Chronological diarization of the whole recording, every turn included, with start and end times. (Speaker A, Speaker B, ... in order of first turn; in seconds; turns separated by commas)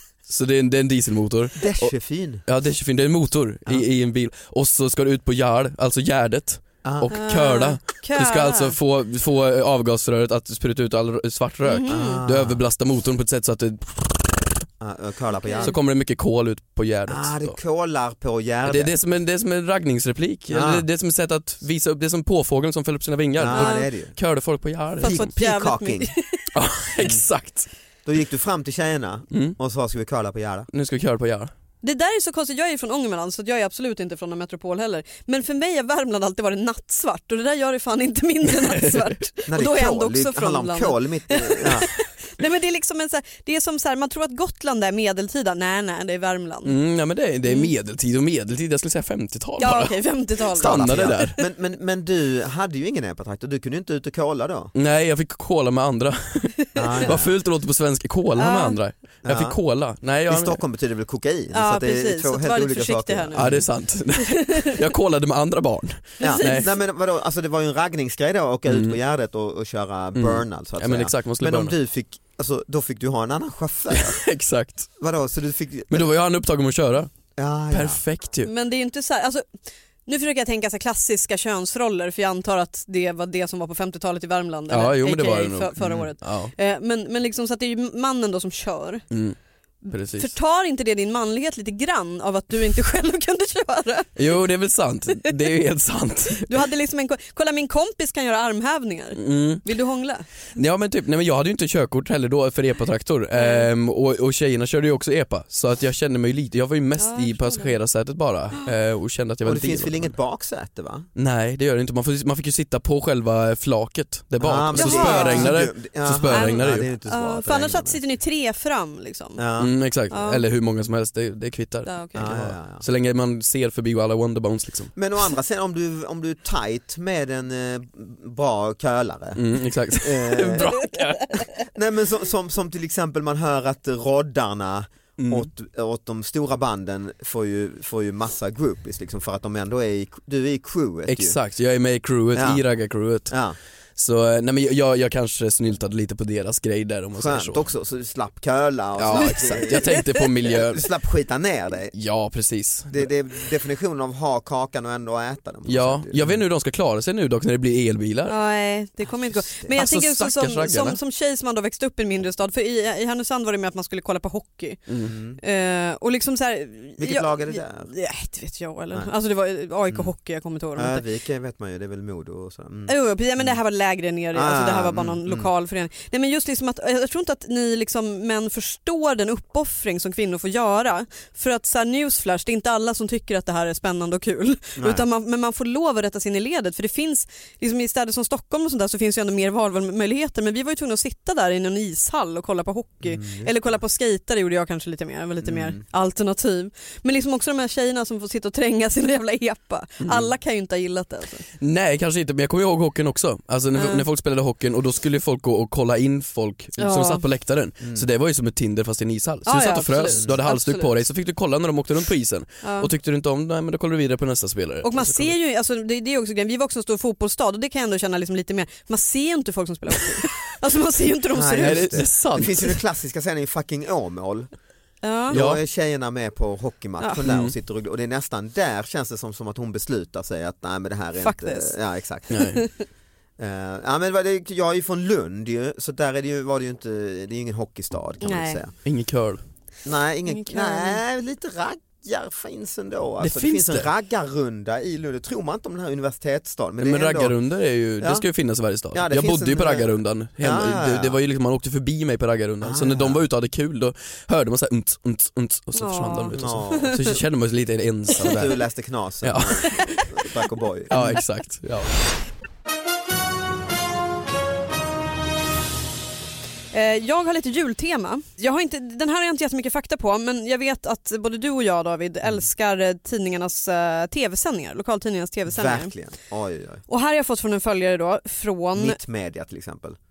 Speaker A: 0.3-1.9, Speaker B: 1.6-2.4, Speaker A: 2.5-14.0, Speaker B: 6.8-7.1, Speaker C: 7.1-8.8, Speaker C: 11.6-12.2, Speaker B: 11.9-12.6, Speaker B: 14.8-15.7, Speaker C: 15.4-15.8, Speaker A: 15.6-17.6, Speaker B: 17.1-18.9, Speaker A: 18.7-25.2, Speaker B: 20.5-20.9, Speaker B: 23.4-24.1, Speaker C: 23.5-23.9, Speaker C: 25.0-26.4, Speaker B: 25.0-26.1, Speaker A: 26.5-27.7, Speaker B: 27.0-27.2, Speaker B: 28.1-30.7, Speaker A: 29.3-29.6, Speaker A: 30.7-31.5, Speaker C: 31.8-46.8, Speaker A: 38.5-39.2, Speaker B: 39.5-41.9, Speaker A: 46.6-51.4, Speaker C: 47.5-47.7, Speaker C: 49.6-51.3, Speaker B: 50.6-54.7, Speaker A: 54.8-60.6, Speaker B: 56.8-57.3, Speaker C: 56.8-57.1, Speaker C: 58.4-58.8, Speaker B: 59.2-59.6, Speaker B: 60.3-63.7, Speaker C: 61.5-63.6, Speaker A: 63.4-66.7, Speaker C: 64.2-64.8, Speaker C: 66.2-66.7, Speaker B: 66.2-74.2, Speaker A: 68.7-69.0, Speaker A: 70.2-71.7, Speaker A: 73.9-74.9, Speaker B: 75.0-76.1, Speaker A: 75.9-77.1, Speaker B: 77.4-78.0, Speaker A: 77.7-78.5, Speaker C: 78.4-79.4, Speaker C: 80.1-89.0, Speaker A: 84.7-86.5, Speaker B: 85.8-86.1, Speaker A: 89.1-89.4, Speaker C: 89.8-94.4, Speaker A: 89.9-90.3, Speaker A: 94.2-96.5, Speaker C: 96.4-100.3, Speaker A: 99.2-99.7, Speaker A: 100.5-110.1, Speaker C: 103.3-103.7, Speaker C: 107.0-107.8, Speaker B: 109.4-111.1, Speaker A: 111.2-116.9, Speaker B: 114.4-118.0, Speaker C: 114.8-115.6, Speaker C: 116.3-119.4, Speaker B: 119.4-119.7, Speaker A: 119.6-124.9, Speaker C: 120.1-120.5, Speaker C: 121.8-122.4, Speaker B: 122.2-122.8, Speaker B: 125.0-130.8, Speaker A: 129.4-131.5, Speaker B: 131.7-141.4, Speaker A: 135.2-135.5, Speaker A: 141.1-143.4, Speaker B: 142.3-142.6, Speaker B: 143.3-143.6, Speaker A: 144.0-147.6, Speaker B: 147.2-151.9, Speaker A: 149.0-150.9, Speaker C: 149.1-150.1, Speaker A: 151.9-153.1, Speaker B: 152.9-156.4, Speaker A: 155.7-158.4, Speaker C: 158.3-164.8, Speaker B: 159.1-159.8, Speaker A: 159.7-161.0, Speaker A: 164.9-165.1, Speaker B: 165.0-165.4, Speaker C: 165.4-171.0, Speaker B: 167.0-167.9, Speaker B: 170.8-173.6, Speaker C: 172.9-201.4, Speaker B: 174.3-175.5, Speaker B: 184.8-185.1, Speaker B: 193.0-193.8, Speaker B: 195.4-195.8, Speaker A: 200.0-200.3, Speaker A: 201.6-215.3, Speaker C: 203.7-204.1, Speaker C: 206.8-207.2, Speaker C: 209.5-211.0, Speaker C: 212.6-212.9, Speaker C: 214.8-222.0, Speaker B: 221.3-224.5, Speaker A: 221.6-222.8, Speaker C: 225.0-225.4, Speaker B: 225.3-232.5, Speaker A: 225.3-225.6, Speaker C: 227.0-227.2, Speaker A: 227.2-227.5, Speaker C: 231.2-231.8, Speaker A: 232.3-232.6, Speaker B: 233.4-238.7, Speaker C: 238.2-238.6, Speaker A: 238.8-239.4, Speaker B: 239.8-247.4, Speaker C: 240.3-241.0, Speaker A: 243.2-243.9, Speaker A: 246.8-258.6, Speaker B: 248.0-248.2, Speaker B: 248.9-251.2, Speaker B: 252.6-253.2, Speaker C: 255.8-257.2, Speaker B: 256.3-257.2, Speaker B: 258.2-261.2, Speaker A: 259.2-260.1, Speaker A: 260.9-261.9, Speaker C: 266.7-275.9, Speaker B: 275.5-276.8, Speaker C: 276.9-279.0, Speaker B: 278.8-280.0